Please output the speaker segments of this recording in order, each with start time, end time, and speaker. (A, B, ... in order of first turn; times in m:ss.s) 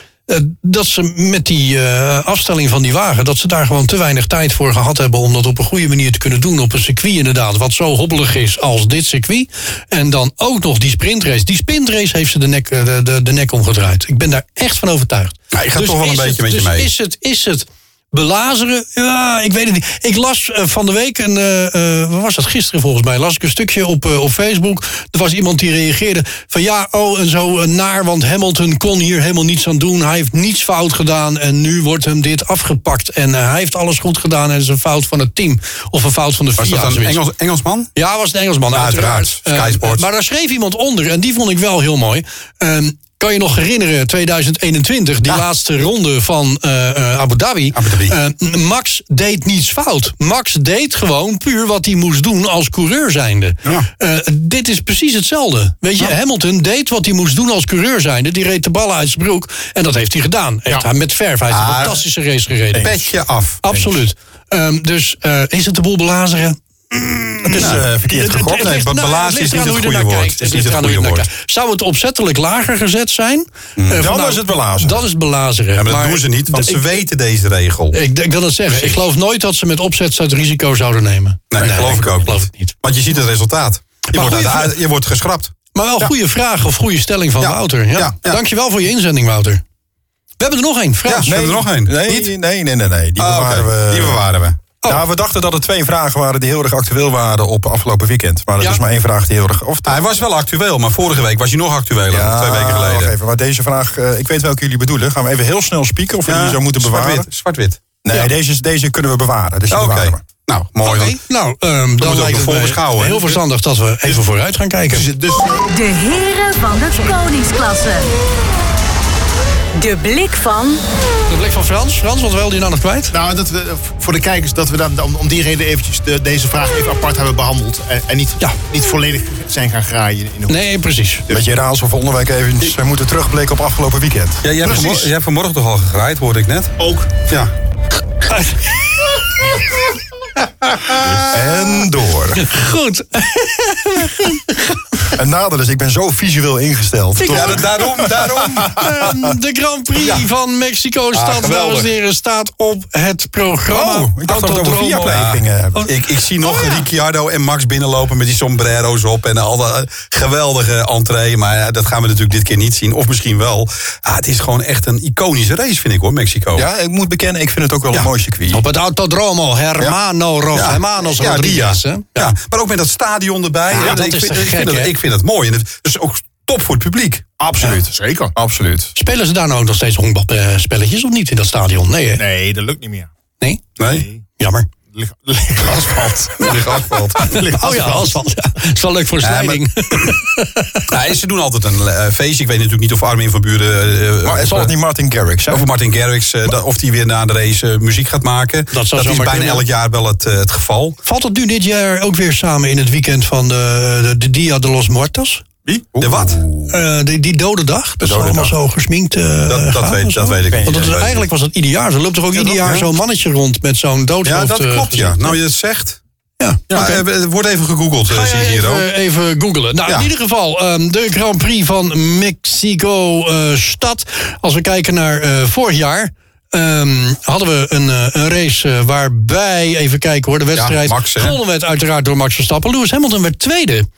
0:00.3-0:37.2 A
0:15.5-0:16.9 B
0:36.6-0:37.9 B
0:38.0-1:02.9 A
0:38.7-0:40.1 B
0:47.7-0:48.2 B
1:01.5-1:02.0 B
1:02.7-1:03.0 C
1:02.8-1:03.6 B
1:03.6-1:16.9 A
1:07.4-1:08.8 C
1:07.5-1:11.3 B
1:13.8-1:14.1 B
1:13.9-1:15.1 C
1:15.8-1:18.0 B
1:17.9-1:22.7 A
1:18.7-1:19.0 B
1:21.5-1:26.1 B
1:24.1-1:24.8 A
1:25.8-1:29.6 A
1:27.4-1:28.4 B
1:30.4-1:31.3 A
1:31.0-1:32.3 B
1:31.3-1:34.2 C
1:33.2-1:34.6 B
1:34.9-1:40.0 C
1:39.8-1:43.1 B
1:42.1-1:47.3 C
1:46.3-1:47.8 B
1:48.0-1:50.2 C
1:49.7-1:51.2 B
1:50.8-1:55.1 A
1:52.0-1:53.4 B
1:54.9-1:55.7 D
1:55.7-1:58.1 E
1:59.8-2:00.8 E
2:01.3-2:03.1 A
2:03.1-2:10.6 D
2:10.5-2:11.2 A
2:11.3-2:14.4 C
2:14.4-2:16.8 B
2:14.6-2:15.1 D
2:16.8-2:17.1 D
2:17.3-2:17.5 B
2:18.2-2:18.9 A
2:20.6-2:21.2 A
2:21.0-2:22.5 C
2:22.4-2:24.8 A
2:25.1-2:29.3 C
2:27.2-2:27.7 A
2:27.3-2:29.0 B
2:28.6-2:35.2 A
2:30.0-2:30.3 B
2:31.1-2:31.9 B
2:33.7-2:35.9 C
2:35.0-2:46.7 B
2:35.8-2:36.8 A
2:46.6-2:48.6 C
2:48.5-2:52.3 A
2:50.5-2:57.2 B
2:53.7-2:54.9 A
2:57.4-2:58.9 C
2:57.8-2:58.3 D
2:59.0-3:02.2 A
3:02.2-3:03.1 D
3:03.8-3:04.1 B
3:03.8-3:04.2 D
3:04.4-3:04.7 A
3:04.9-3:08.2 D
3:06.4-3:07.4 B
3:07.4-3:10.9 A
3:09.2-3:10.2 B
3:10.9-3:14.7 B
3:14.2-3:15.7 C
3:15.5-3:21.0 B
3:18.7-3:19.6 A
3:21.0-3:25.4 A
3:25.7-3:26.8 C
3:26.0-3:26.4 B
3:26.7-3:35.4 A
3:28.0-3:28.5 C
3:29.5-3:31.1 B
3:30.5-3:31.2 C
3:32.3-3:32.9 B
3:34.2-3:36.0 B
3:36.4-3:36.9 A
3:36.7-3:37.0 D
3:36.7-3:38.9 B
3:38.1-3:53.9 A
3:50.6-3:51.4 B